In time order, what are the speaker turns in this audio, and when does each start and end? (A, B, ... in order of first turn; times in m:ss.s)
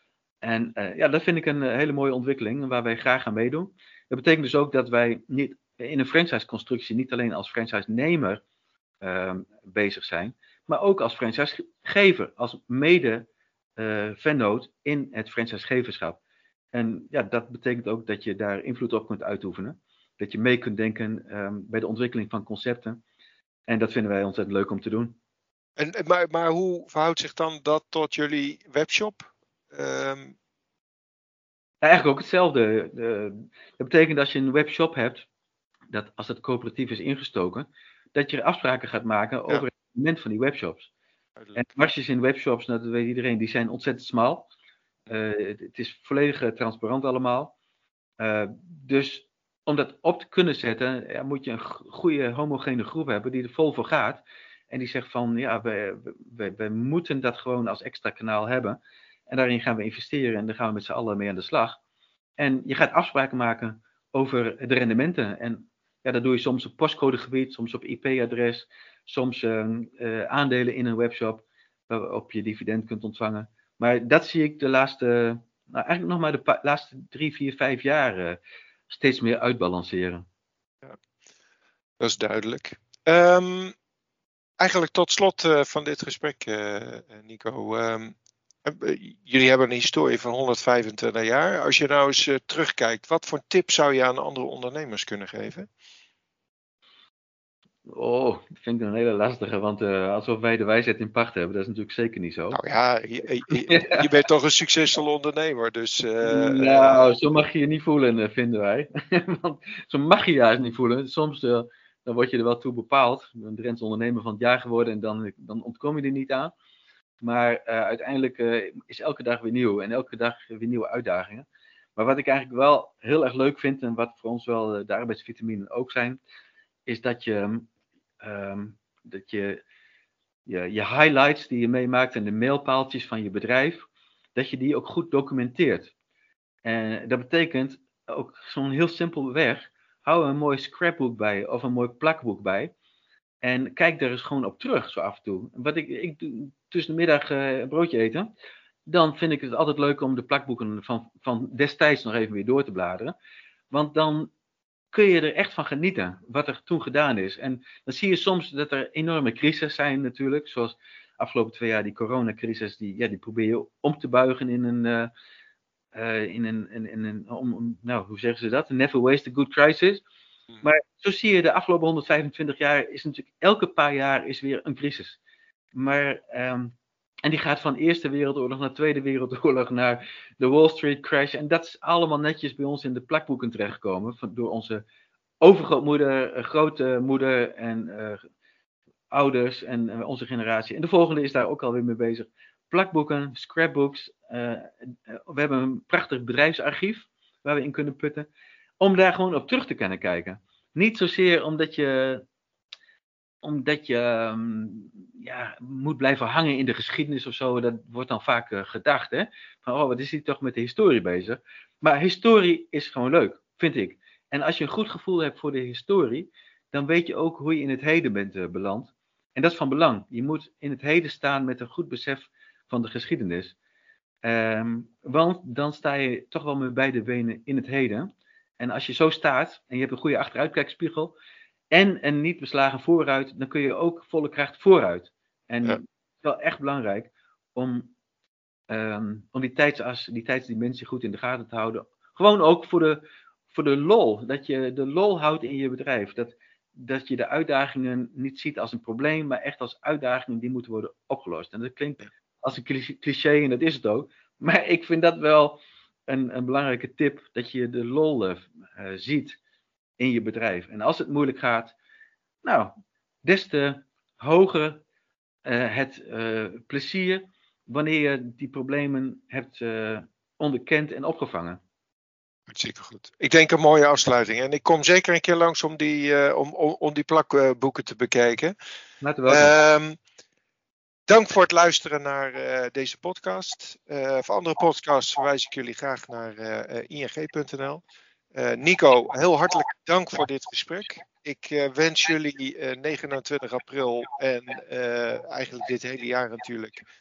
0:00.4-0:08.4 A
0:09.0-0:16.2 A
0:16.7-0:23.0 A
0:23.7-0:25.2 A
0:25.8-0:30.3 B
0:31.8-0:35.3 A
0:35.9-0:40.9 A
0:41.4-0:41.6 B
0:41.5-0:44.5 A
0:45.1-0:47.5 A
0:48.2-0:58.8 A
0:59.3-1:01.8 A
1:02.4-1:20.2 A
1:22.0-1:23.8 B
1:24.6-1:35.7 B
1:37.9-1:42.6 A
1:42.5-1:47.1 B
1:43.5-1:44.1 A
1:46.2-1:56.5 A
1:57.2-2:01.4 A
2:02.0-2:06.2 A
2:06.9-2:07.7 A
2:08.2-2:09.6 A
2:10.4-2:15.9 A
2:16.6-2:22.7 A
2:23.4-2:28.3 A
2:28.9-2:33.1 A
2:33.7-2:34.3 A
2:34.9-2:45.1 A
2:45.9-2:50.0 A
2:50.6-2:55.2 A
2:55.7-2:56.7 A
2:57.2-3:04.8 A
3:05.4-3:08.2 A
3:09.1-3:18.3 A
3:18.8-3:22.2 A
3:23.4-3:43.5 A
3:44.2-3:51.1 A
3:51.7-3:57.9 A
3:58.7-4:19.4 A
4:20.0-4:21.7 A
4:22.4-4:22.7 A
4:23.2-4:24.8 A
4:25.4-4:31.6 A
4:32.5-4:38.5 B
4:39.0-4:39.5 A
4:39.3-4:40.0 B
4:41.1-4:47.8 B
4:48.3-4:56.8 B